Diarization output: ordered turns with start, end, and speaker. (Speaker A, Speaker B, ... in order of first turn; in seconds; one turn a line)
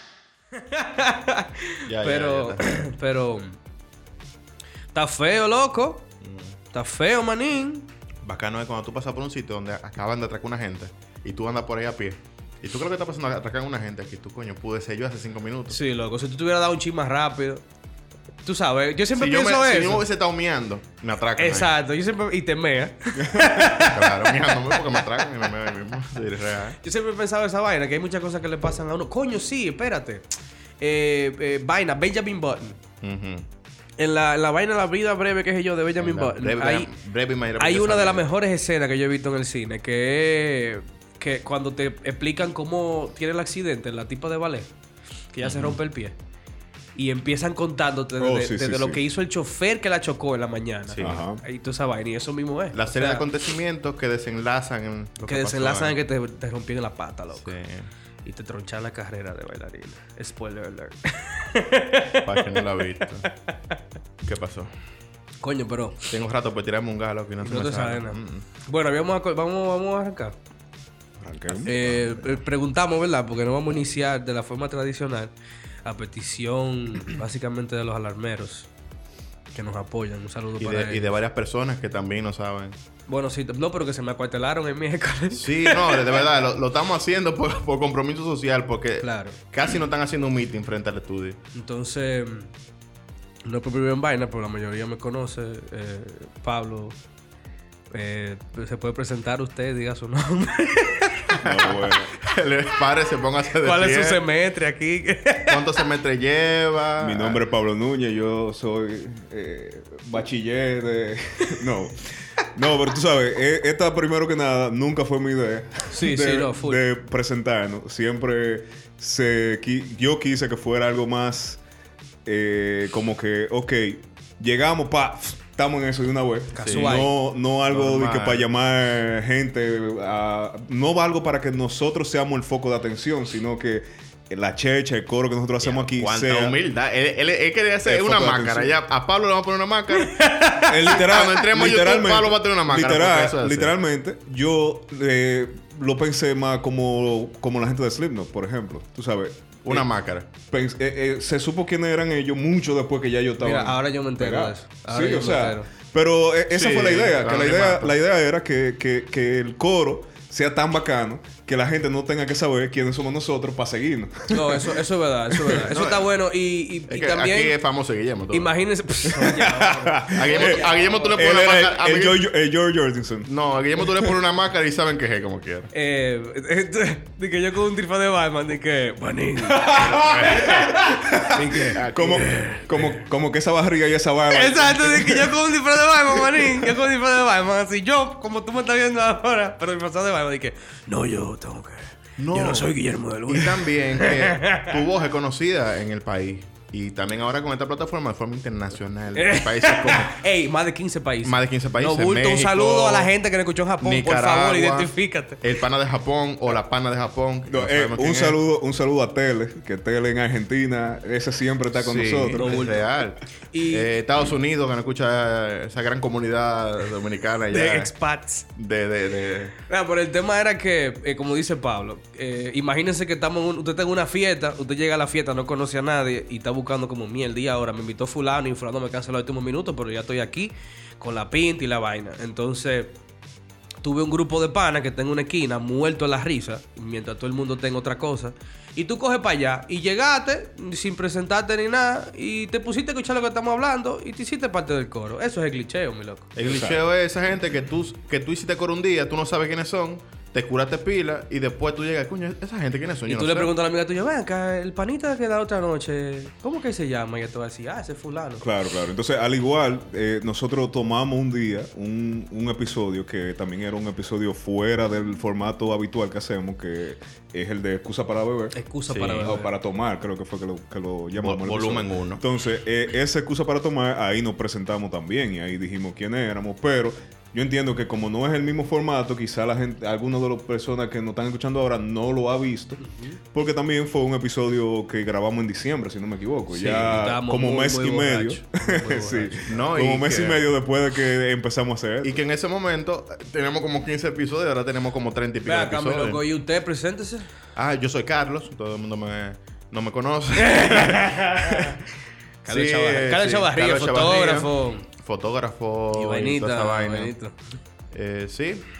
Speaker A: 0.6-3.5
Speaker B: 1.9-2.8
Speaker A: 4.9-6.0
Speaker B: 6.2-6.5
Speaker A: 6.7-7.9
Speaker B: 8.2-15.8
Speaker A: 15.7-17.6
Speaker A: 18.4-20.0
Speaker B: 19.1-21.7
Speaker A: 21.4-25.0
Speaker C: 23.2-23.6
Speaker B: 23.8-26.8
Speaker A: 26.8-30.3
Speaker A: 30.8-32.8
Speaker B: 33.0-33.4
Speaker A: 34.0-36.9
Speaker B: 36.0-38.3
Speaker A: 37.6-44.7
Speaker A: 45.3-46.1
Speaker B: 45.4-45.8
Speaker A: 46.9-53.3
Speaker C: 48.2-49.0
Speaker B: 50.9-51.2
Speaker C: 51.0-51.4
Speaker B: 52.7-55.9
Speaker A: 55.3-57.5
Speaker B: 57.4-57.9
Speaker A: 58.2-62.6
Speaker B: 62.2-63.3
Speaker A: 63.2-63.8
Speaker B: 64.2-64.7
Speaker A: 65.4-66.1
Speaker B: 66.1-68.4
Speaker A: 67.4-70.3
Speaker C: 71.2-72.0
Speaker A: 71.6-75.3
Speaker A: 75.8-78.7
Speaker A: 79.5-81.1
Speaker B: 80.6-82.7
Speaker A: 83.1-86.2
Speaker B: 85.3-91.4
Speaker A: 89.0-89.4
Speaker A: 91.5-92.5
Speaker A: 93.4-96.9
Speaker A: 97.9-101.4
Speaker C: 101.4-102.1
Speaker B: 101.4-104.2
Speaker A: 103.6-105.6
Speaker B: 105.5-107.4
Speaker C: 107.0-121.6
Speaker A: 115.9-116.8
Speaker C: 122.2-136.6
Speaker A: 126.5-127.1
Speaker B: 126.6-127.0
Speaker B: 127.7-128.4
Speaker B: 135.6-143.7
Speaker C: 137.8-138.8
Speaker A: 139.9-140.9
Speaker C: 140.7-149.9
Speaker B: 149.6-150.3
Speaker C: 150.5-164.8
Speaker A: 153.4-155.7
Speaker B: 156.5-157.9
Speaker A: 164.3-167.6
Speaker C: 165.3-165.7
Speaker B: 165.7-166.1
Speaker B: 166.9-168.5
Speaker A: 168.3-171.2
Speaker C: 169.1-174.2
Speaker B: 170.1-172.2
Speaker B: 173.2-175.7
Speaker A: 175.7-182.7
Speaker C: 179.4-185.4
Speaker B: 179.8-180.7
Speaker B: 181.7-182.4
Speaker A: 184.3-194.8
Speaker C: 186.1-186.7
Speaker B: 192.2-192.7
Speaker B: 193.3-200.2
Speaker A: 199.1-205.4
Speaker B: 201.2-203.1
Speaker B: 203.8-208.4
Speaker C: 207.5-212.7
Speaker B: 211.7-217.9
Speaker A: 212.3-212.9
Speaker A: 213.5-213.9
Speaker A: 217.5-218.4
Speaker B: 218.6-219.5
Speaker A: 219.7-232.9
Speaker A: 233.8-246.3
Speaker B: 246.3-253.5
Speaker C: 246.4-246.8
Speaker A: 253.1-258.4
Speaker C: 258.4-268.5
Speaker A: 268.5-269.5
Speaker B: 268.9-269.3
Speaker C: 269.2-292.2
Speaker B: 271.2-272.2
Speaker A: 282.8-283.2
Speaker A: 286.5-289.5
Speaker B: 289.5-290.4
Speaker B: 292.0-296.2
Speaker A: 295.4-297.2
Speaker B: 297.6-301.7
Speaker A: 300.4-301.8
Speaker A: 302.4-304.8
Speaker B: 302.5-307.1
Speaker A: 305.9-307.4
Speaker B: 307.9-308.6